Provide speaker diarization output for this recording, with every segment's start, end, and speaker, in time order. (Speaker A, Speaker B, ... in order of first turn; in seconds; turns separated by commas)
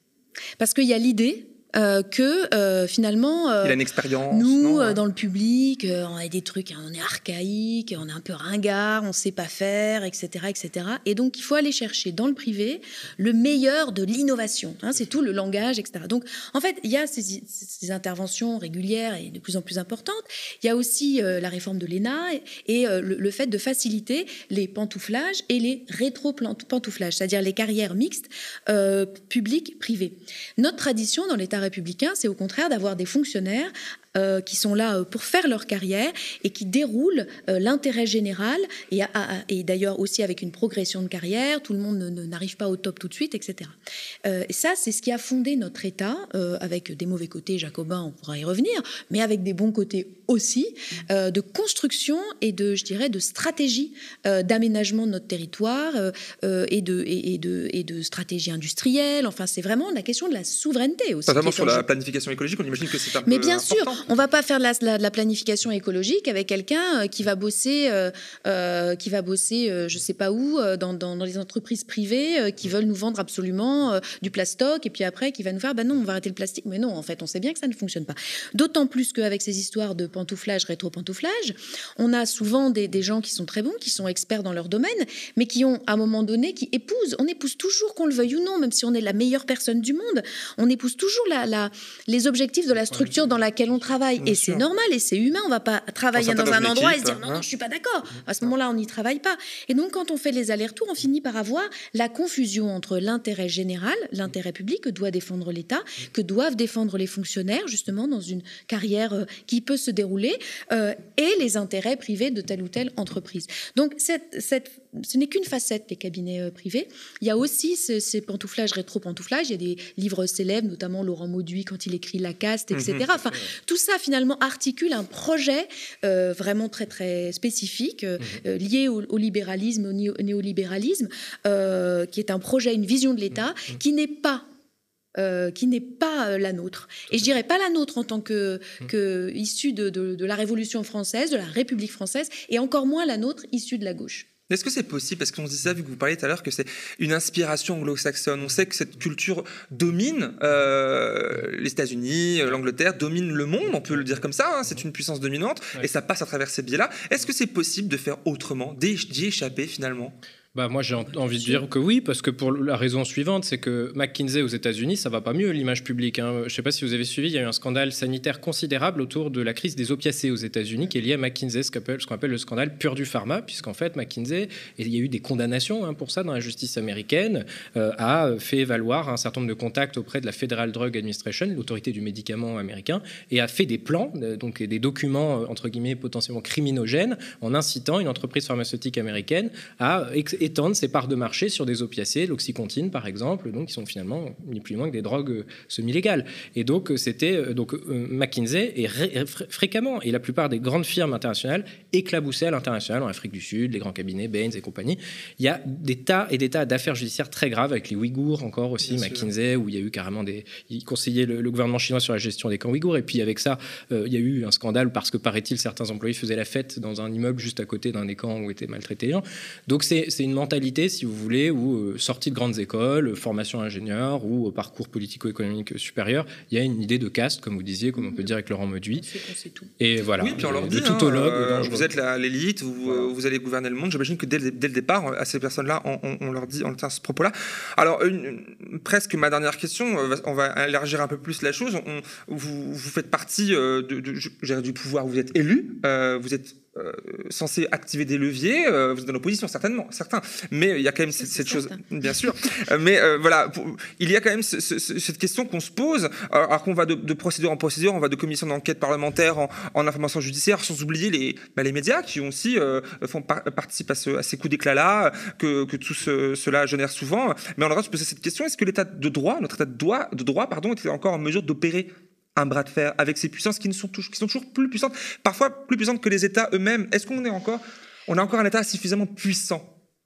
Speaker A: 0.6-61.9, Speaker B: 3.6-5.0, Speaker B: 61.3-64.2, Speaker A: 63.3-134.4, Speaker B: 94.2-94.6, Speaker B: 96.1-97.4, Speaker B: 122.7-123.0, Speaker A: 135.2-144.3, Speaker B: 144.5-160.2, Speaker C: 160.6-229.1, Speaker A: 161.0-161.6, Speaker B: 208.8-209.3, Speaker A: 228.0-228.3, Speaker A: 229.0-229.7, Speaker C: 229.8-231.9, Speaker B: 230.2-279.7, Speaker A: 251.2-252.3